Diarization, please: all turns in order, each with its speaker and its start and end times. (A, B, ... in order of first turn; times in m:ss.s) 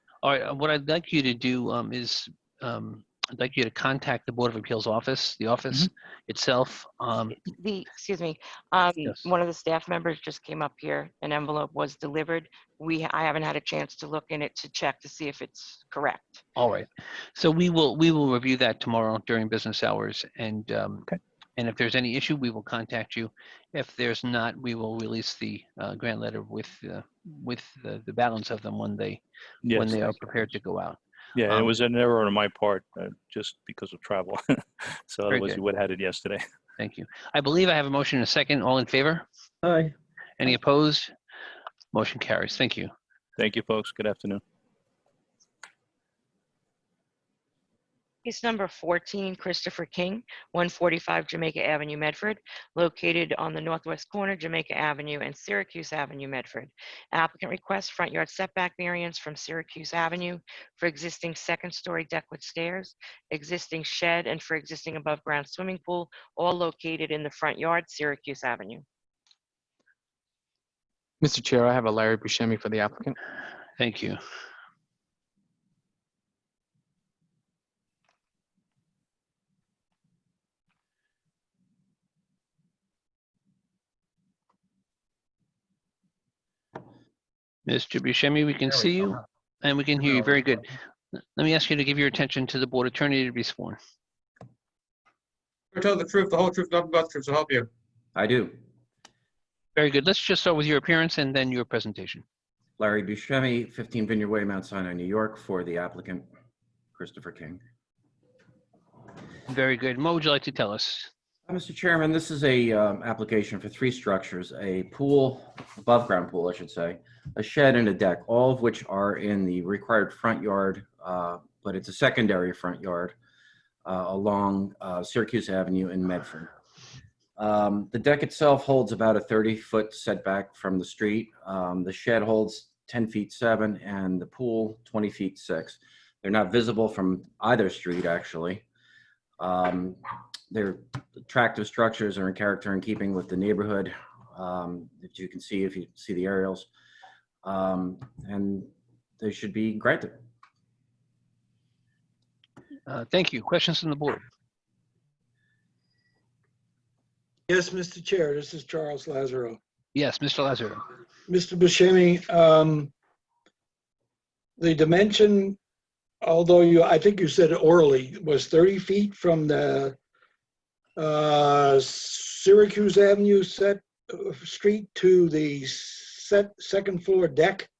0:00.2-0:07.4 A
0:07.6-0:16.4 B
0:09.0-0:09.3 A
0:16.6-0:31.0 A
0:29.6-0:30.2 C
0:31.4-0:34.4 C
0:35.1-0:36.4 C
0:35.3-0:35.6 A
0:36.8-0:39.2 A
0:40.4-0:41.1 A
0:41.9-0:42.9 A
0:43.4-0:44.4 C
0:48.2-1:08.8 B
1:11.2-1:13.2 D
1:13.8-1:14.2 A
1:27.7-1:30.7 A
1:31.4-1:33.8 A
1:35.7-1:37.7 E
1:38.2-1:38.6 F
1:39.8-1:42.2 A
1:42.8-1:46.2 F
1:47.0-1:47.6 F
1:49.5-1:51.1 A
1:51.5-2:03.2 F
2:03.8-2:06.5 F
2:07.4-2:18.6 F
2:19.4-2:26.7 F
2:27.4-2:30.2 F
2:32.9-2:34.2 A
2:37.5-2:39.6 G
2:39.9-2:40.8 A
2:41.3-2:42.9 G
2:44.6-2:45.6 G
2:46.2-2:50.0 G
2:51.0-2:57.7 G